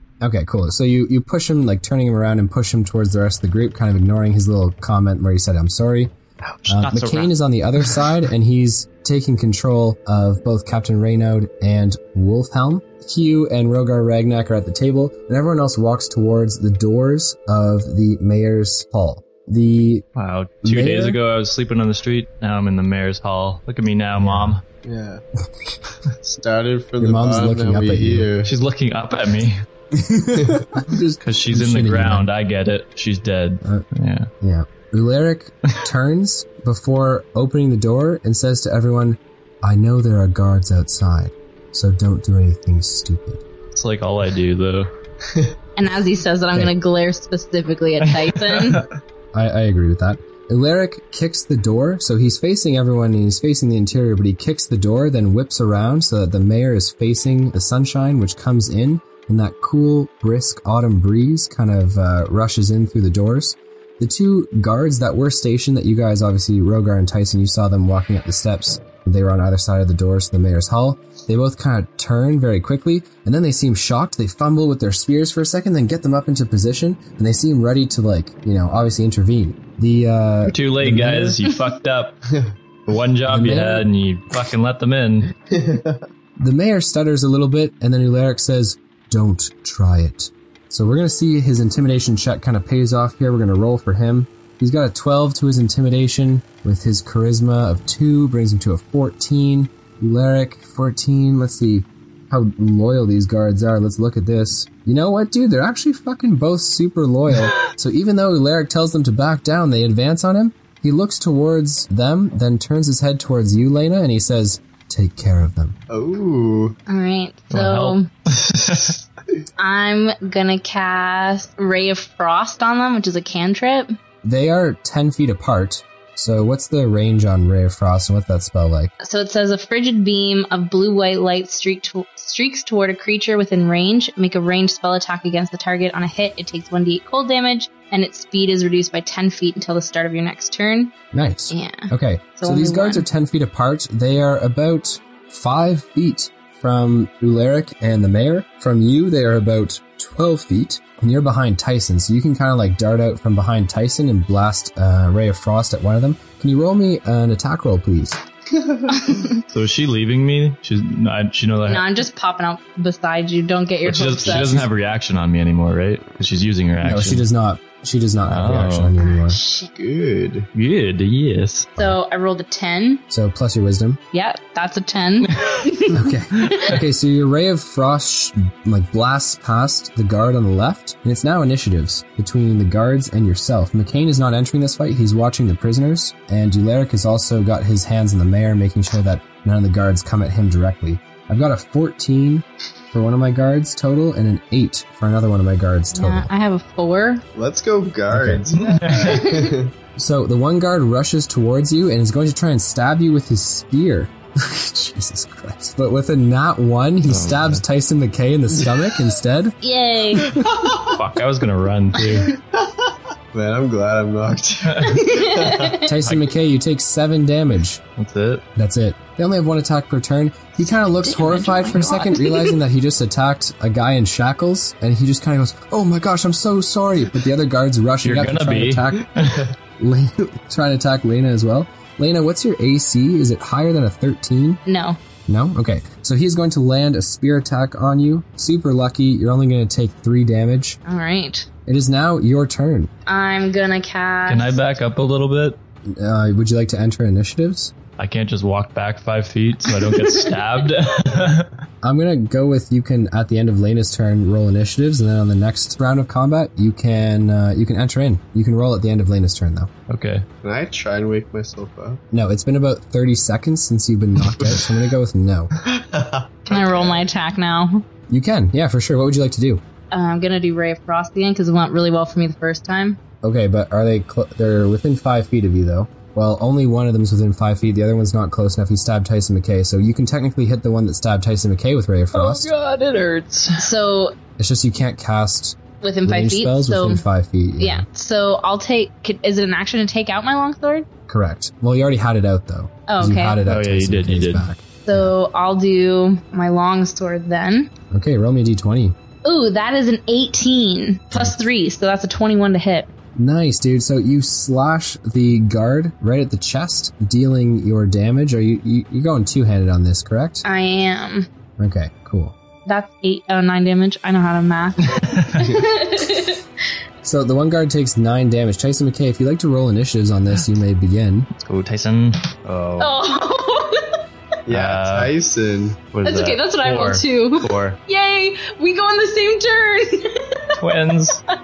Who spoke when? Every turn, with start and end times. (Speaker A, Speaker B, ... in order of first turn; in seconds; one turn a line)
Speaker A: 0.2-6.1
Speaker B: 6.4-7.3
Speaker A: 6.7-20.0
Speaker B: 20.1-24.6
Speaker A: 20.6-21.2
Speaker A: 24.1-24.6
Speaker C: 24.8-25.2
Speaker C: 26.2-28.5
Speaker A: 27.0-28.3
Speaker B: 28.4-29.6
Speaker A: 29.9-32.3
Speaker C: 30.4-30.7
Speaker B: 31.2-34.3
Speaker A: 34.4-43.4
Speaker B: 43.7-44.9
Speaker D: 45.8-48.9
Speaker B: 48.0-48.9
Speaker A: 49.3-81.4
Speaker B: 80.5-82.2
Speaker B: 82.9-85.3
Speaker A: 83.3-83.9
Speaker C: 85.5-86.0
Speaker A: 86.4-115.8
Speaker C: 115.9-116.8
Speaker D: 116.9-118.1
Speaker B: 117.5-119.0
Speaker D: 119.6-124.0
Speaker A: 124.2-128.9
Speaker D: 129.0-140.9
Speaker A: 141.1-158.2
Speaker D: 141.5-143.0
Speaker C: 158.6-158.9
Speaker D: 159.0-159.4
Speaker B: 159.5-161.9
Speaker D: 161.7-164.6
Speaker B: 163.8-167.2
Speaker A: 164.3-164.7
Speaker A: 166.8-169.4
Speaker B: 168.3-168.9
Speaker D: 169.0-169.7
Speaker C: 169.8-170.5
Speaker B: 170.5-171.8
Speaker D: 171.8-173.0
Speaker A: 173.1-174.0
Speaker D: 174.1-176.8
Speaker B: 175.3-175.7
Speaker A: 175.9-196.3
Speaker B: 176.4-176.8
Speaker D: 195.9-197.2
Speaker C: 197.3-199.7
Speaker A: 198.1-198.4
Speaker B: 198.5-199.3
Speaker D: 198.9-199.6
Speaker A: 200.0-209.6
Speaker B: 207.1-207.6
Speaker C: 208.6-209.1
Speaker D: 209.6-210.4
Speaker C: 210.2-211.0
Speaker B: 210.8-212.3
Speaker C: 212.5-215.8
Speaker B: 214.7-215.0
Speaker D: 214.9-215.9
Speaker A: 215.8-217.8
Speaker B: 216.0-216.3
Speaker B: 218.0-218.4
Speaker A: 218.6-229.1
Speaker D: 220.8-222.6
Speaker B: 228.0-229.5
Speaker A: 229.8-234.6
Speaker D: 234.7-235.0
Speaker A: 235.3-240.8
Speaker D: 240.8-241.5
Speaker A: 241.7-242.9
Speaker D: 243.1-244.6
Speaker B: 244.3-245.6
Speaker A: 245.8-247.7
Speaker B: 248.0-251.5
Speaker D: 249.8-250.3
Speaker A: 251.8-259.7
Speaker B: 259.9-260.2
Speaker C: 260.4-262.0
Speaker A: 262.1-265.5
Speaker C: 264.3-264.8
Speaker C: 265.6-267.1
Speaker D: 266.5-267.9
Speaker A: 268.1-269.6
Speaker D: 269.9-273.0
Speaker A: 273.2-282.5
Speaker B: 282.1-283.7
Speaker D: 283.6-284.2
Speaker A: 284.4-287.9
Speaker D: 285.8-287.0
Speaker D: 287.6-290.9
Speaker A: 291.1-295.1
Speaker D: 292.9-293.4
Speaker B: 293.4-294.5
Speaker D: 294.9-297.7
Speaker A: 297.9-298.9
Speaker D: 299.2-302.9
Speaker A: 303.2-310.4
Speaker D: 310.4-311.3
Speaker A: 311.6-312.3
Speaker D: 312.7-316.4
Speaker B: 315.0-315.5
Speaker A: 317.0-321.3
Speaker B: 321.3-323.0
Speaker D: 322.8-324.0
Speaker C: 324.5-325.9
Speaker B: 324.5-325.1
Speaker B: 325.9-327.8
Speaker D: 326.0-330.6
Speaker B: 330.6-331.2